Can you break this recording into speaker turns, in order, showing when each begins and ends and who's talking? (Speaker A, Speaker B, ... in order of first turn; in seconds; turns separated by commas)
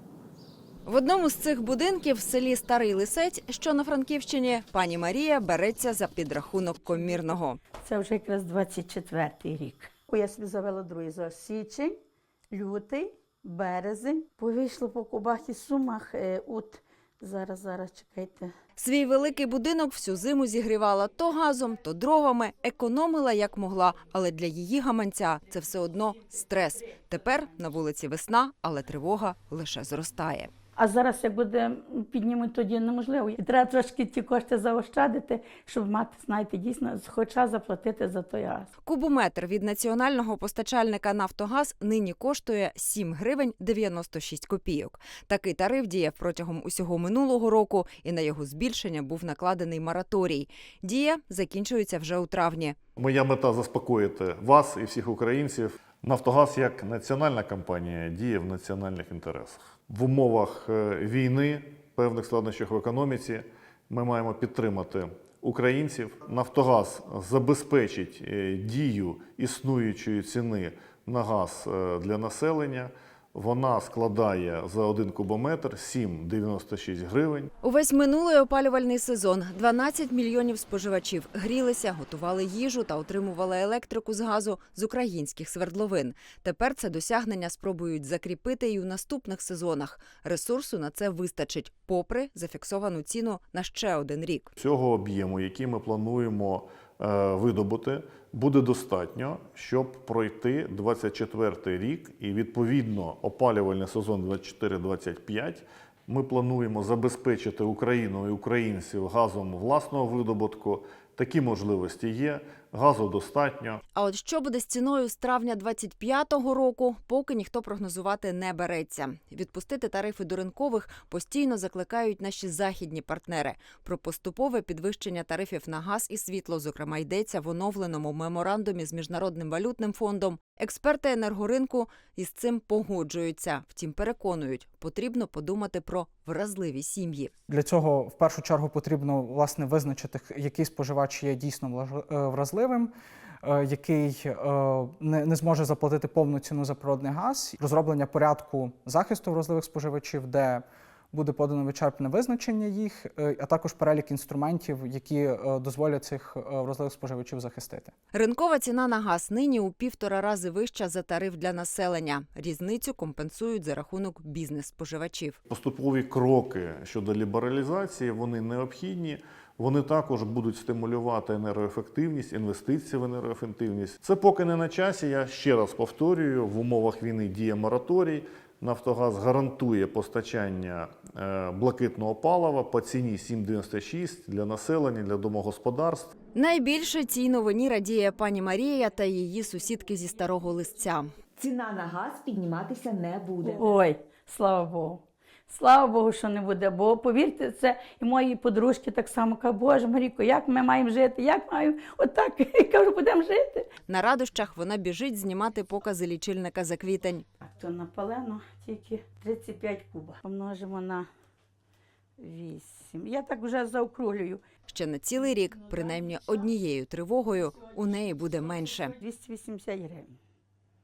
Speaker A: 0.9-7.6, Speaker B: 7.8-11.9, Speaker B: 12.5-18.5, Speaker A: 18.8-30.5, Speaker B: 30.8-38.7, Speaker A: 38.9-52.8, Speaker C: 53.0-77.5, Speaker A: 77.6-94.5, Speaker C: 94.6-113.8, Speaker A: 114.0-137.3, Speaker D: 137.5-142.9, Speaker D: 143.4-157.9, Speaker A: 158.1-165.4, Speaker C: 165.5-186.1, Speaker A: 186.3-191.1, Speaker E: 191.4-193.8, Speaker B: 193.4-203.7, Speaker A: 203.9-207.2, Speaker B: 207.4-211.1, Speaker B: 212.2-214.4, Speaker A: 214.7-219.0, Speaker B: 219.0-220.2